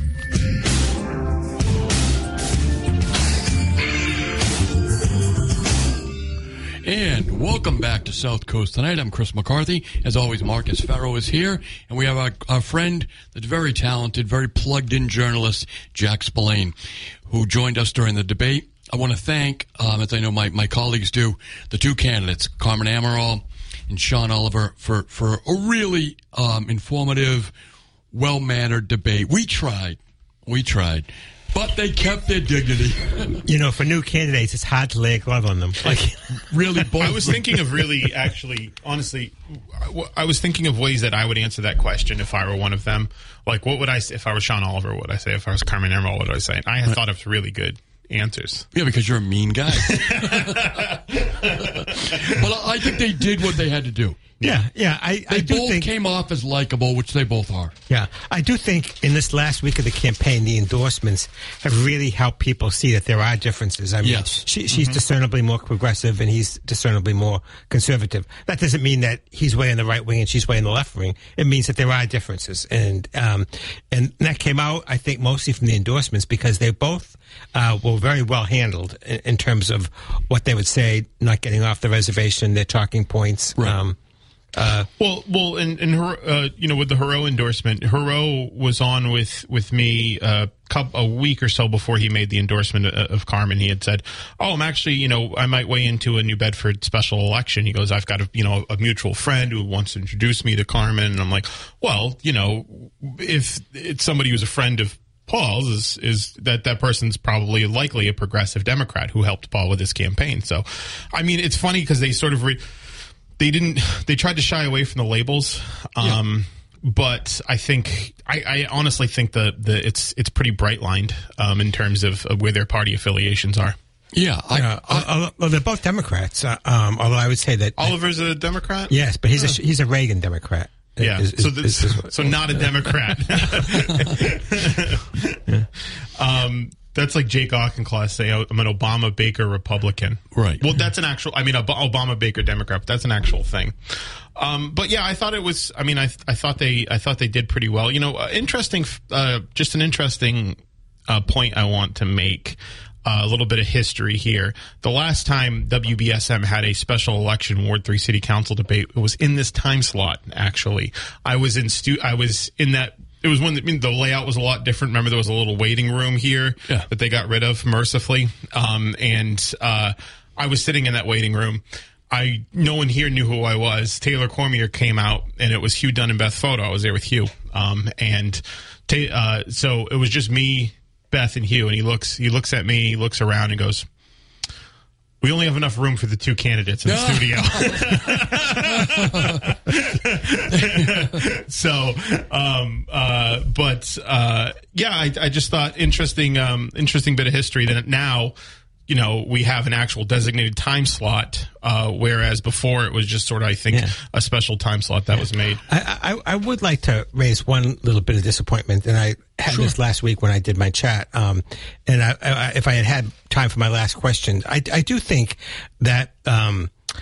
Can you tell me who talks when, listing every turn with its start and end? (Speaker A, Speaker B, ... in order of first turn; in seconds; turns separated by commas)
Speaker A: 6.8-16.7, Speaker A: 17.3-27.5, Speaker A: 28.1-33.4, Speaker B: 33.4-36.2, Speaker A: 36.3-37.4, Speaker C: 37.0-48.7, Speaker A: 48.7-50.9, Speaker C: 49.8-52.3, Speaker A: 51.6-54.2, Speaker B: 54.4-55.9, Speaker A: 55.3-57.7, Speaker B: 57.9-84.0, Speaker A: 64.0-64.4, Speaker C: 64.7-65.0, Speaker B: 84.5-84.9, Speaker C: 85.0-123.8, Speaker A: 124.1-125.1, Speaker B: 124.5-128.0, Speaker C: 127.8-129.6, Speaker B: 128.9-133.8, Speaker C: 131.0-135.4, Speaker C: 136.1-183.8, Speaker A: 140.3-140.6, Speaker C: 185.2-198.3, Speaker A: 186.8-189.5, Speaker A: 190.5-191.2, Speaker C: 198.9-205.6, Speaker B: 205.7-216.7, Speaker A: 209.5-209.7